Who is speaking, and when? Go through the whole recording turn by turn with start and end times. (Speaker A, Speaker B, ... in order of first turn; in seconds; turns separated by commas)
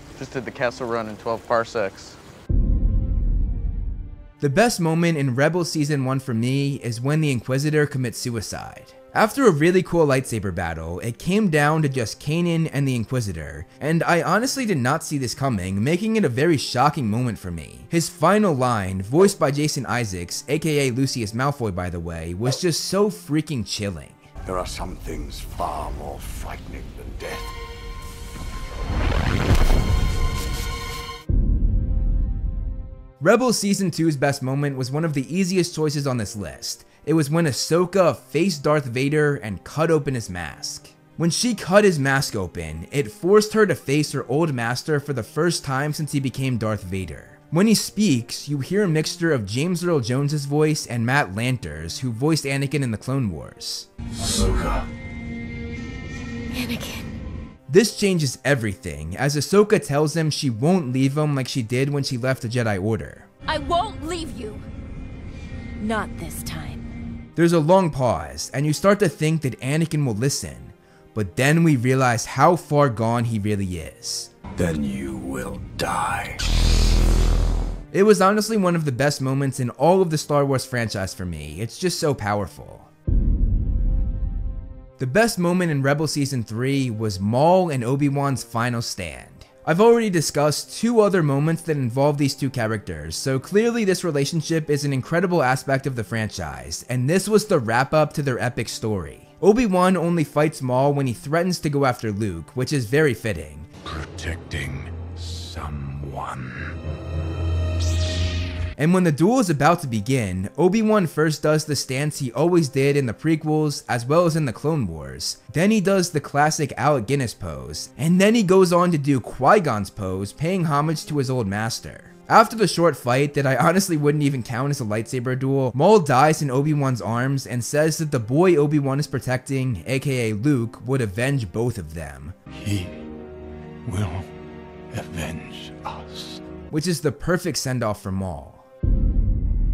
Speaker A: 0.2-2.2, Speaker B: 4.4-24.2, Speaker B: 33.2-53.9, Speaker C: 54.2-54.8, Speaker D: 56.5-57.1, Speaker B: 57.7-63.3, Speaker D: 63.5-64.6, Speaker D: 65.8-66.9, Speaker B: 67.3-74.3, Speaker C: 74.5-76.4, Speaker B: 77.9-82.9, Speaker B: 85.0-103.7, Speaker C: 103.8-106.8, Speaker B: 108.8-132.3, Speaker C: 132.5-133.0, Speaker C: 133.8-134.3, Speaker C: 134.9-136.4, Speaker B: 136.7-138.7